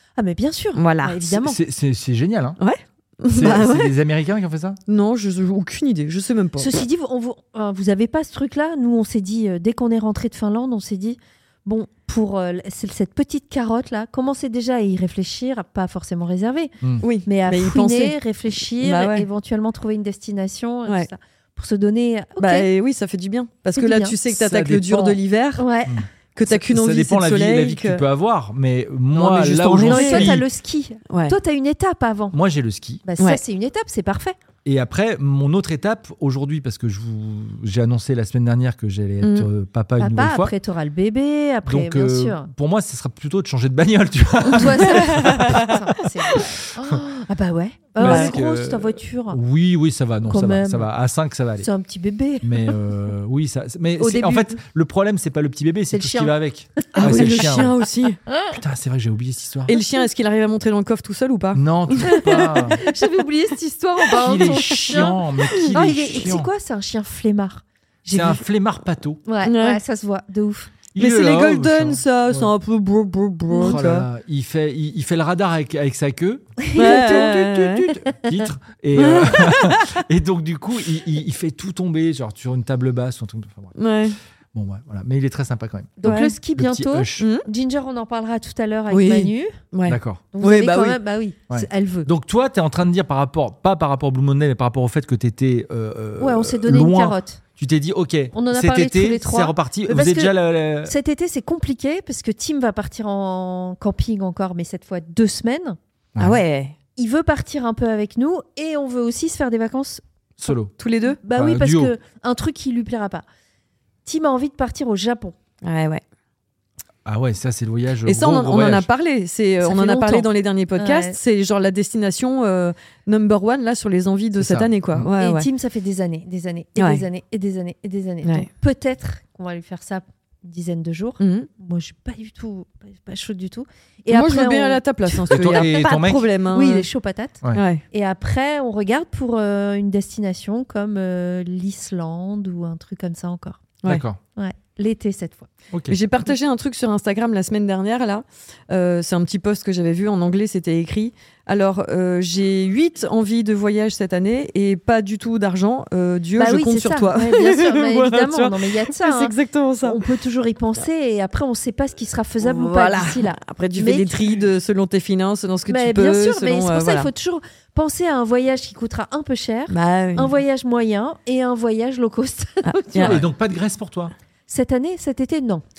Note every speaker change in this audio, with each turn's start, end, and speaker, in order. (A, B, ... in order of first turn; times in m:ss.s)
0:00.2-0:01.6 A
0:00.8-0:01.2 B
0:01.2-0:02.6 C
0:02.6-0:03.9 B
0:03.3-0:04.8 C
0:04.9-0:06.7 B
0:06.6-0:16.7 A
0:17.0-0:19.3 B
0:17.2-0:22.7 A
0:22.4-0:25.6 B
0:23.8-0:24.2 A
0:24.3-0:25.1 C
0:25.6-0:26.0 A
0:25.9-0:30.4 C
0:26.4-0:28.0 B
0:29.1-0:30.4 B
0:29.8-0:32.4 A
0:31.1-0:31.3 B
0:32.3-0:33.0 C
0:33.0-0:34.4 A
0:34.6-0:40.5 C
0:39.2-0:39.5 B
0:40.0-0:42.5 A
0:41.6-0:46.9 C
0:44.4-0:49.4 A
0:45.1-0:45.7 B
0:48.0-0:48.3 B
0:48.0-0:51.7 C
0:50.3-0:50.9 A
0:51.6-0:52.7 A
0:52.4-0:57.8 C
0:54.0-0:54.6 A
0:55.9-0:56.3 A
0:57.0-0:58.2 B
0:58.5-0:59.7 C
0:59.7-1:02.8 B
1:01.5-1:02.8 C
1:02.8-1:05.1 A
1:04.2-1:06.5 C
1:04.4-1:05.7 B
1:05.7-1:08.4 A
1:08.1-1:09.2 C
1:09.2-1:10.7 A
1:09.4-1:09.8 B
1:10.9-1:12.5 C
1:11.0-1:14.1 B
1:13.6-1:23.8 C
1:16.6-1:17.3 A
1:16.8-1:17.9 B
1:18.9-1:20.0 B
1:23.8-1:24.2 B
1:24.5-1:27.3 C
1:26.0-1:29.6 A
1:26.0-1:26.3 B
1:27.2-1:27.4 B
1:28.9-1:31.0 B
1:29.9-1:30.2 C
1:30.3-1:32.1 A
1:31.5-1:40.9 C
1:36.2-1:37.4 A
1:38.3-1:45.8 A
1:46.1-1:46.4 C
1:46.2-1:46.7 B
1:47.0-1:50.0 A
1:50.4-1:50.7 C
1:50.8-1:51.2 B
1:51.2-1:53.2 A
1:51.3-1:51.9 C
1:54.0-1:55.3 A
1:55.6-1:56.0 B
1:57.0-1:58.9 C
1:58.0-2:05.5 B
1:59.6-2:01.2 A
2:04.4-2:05.1 C
2:05.2-2:17.4 A
2:06.8-2:07.0 B
2:11.2-2:11.5 B
2:14.1-2:16.9 B
2:15.3-2:16.3 C
2:17.5-2:17.8 B
2:17.9-2:23.6 A
2:23.8-2:24.2 C
2:24.4-2:25.5 A
2:25.7-2:26.0 C
2:25.9-2:40.0 B
2:36.4-2:44.2 A
2:42.4-2:47.1 B
2:45.7-2:53.2 A
2:49.7-2:50.3 B
2:52.6-2:53.2 B
2:53.0-2:54.1 C
2:54.5-2:55.6 A